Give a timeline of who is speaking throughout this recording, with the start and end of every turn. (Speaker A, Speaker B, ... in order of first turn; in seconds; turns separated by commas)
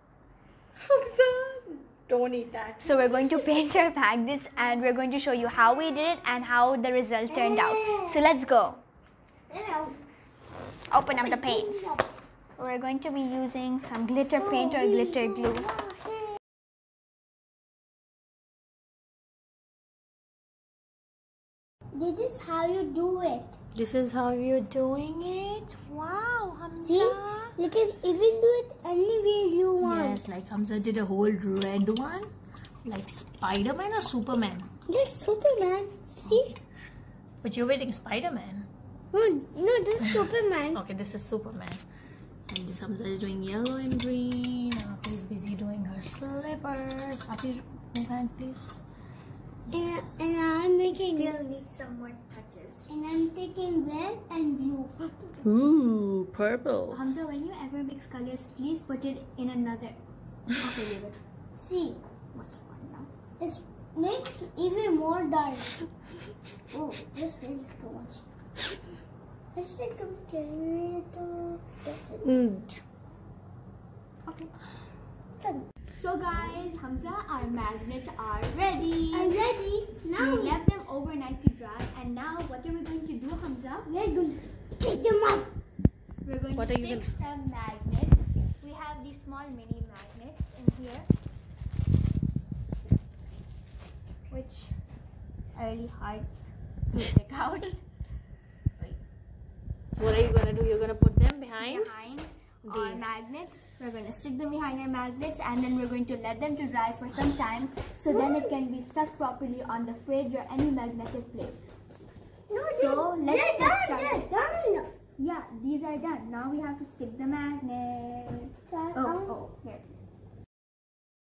Speaker A: 0.8-3.3, Speaker B: 2.8-8.8, Speaker C: 7.3-8.2, Speaker C: 9.5-10.0, Speaker B: 10.9-12.0, Speaker C: 11.1-12.1, Speaker B: 12.6-15.7, Speaker C: 14.4-16.4, Speaker C: 21.9-23.5, Speaker A: 23.7-27.6, Speaker C: 26.8-30.2, Speaker A: 29.8-32.3, Speaker A: 32.8-34.7, Speaker C: 34.9-36.5, Speaker A: 36.2-36.5, Speaker A: 37.4-38.7, Speaker C: 39.1-40.8, Speaker A: 40.7-41.8, Speaker A: 42.5-48.8, Speaker C: 49.7-51.4, Speaker B: 50.9-52.9, Speaker C: 52.9-55.4, Speaker A: 55.4-57.0, Speaker B: 56.9-60.0, Speaker B: 60.6-61.2, Speaker C: 61.6-62.0, Speaker B: 62.3-63.1, Speaker C: 63.4-65.8, Speaker C: 66.7-68.2, Speaker C: 69.5-72.2, Speaker A: 72.2-72.8, Speaker C: 75.4-75.7, Speaker B: 75.9-79.4, Speaker C: 79.1-80.6, Speaker B: 80.2-83.9, Speaker C: 83.8-85.5, Speaker B: 86.2-91.1, Speaker A: 86.5-87.1, Speaker B: 94.3-94.7, Speaker B: 95.5-96.3, Speaker B: 96.9-97.8, Speaker A: 99.9-101.9, Speaker B: 101.6-111.7, Speaker A: 102.6-103.1, Speaker C: 108.1-108.5, Speaker C: 112.5-114.9, Speaker B: 112.7-114.3, Speaker B: 115.2-120.0, Speaker C: 118.7-119.4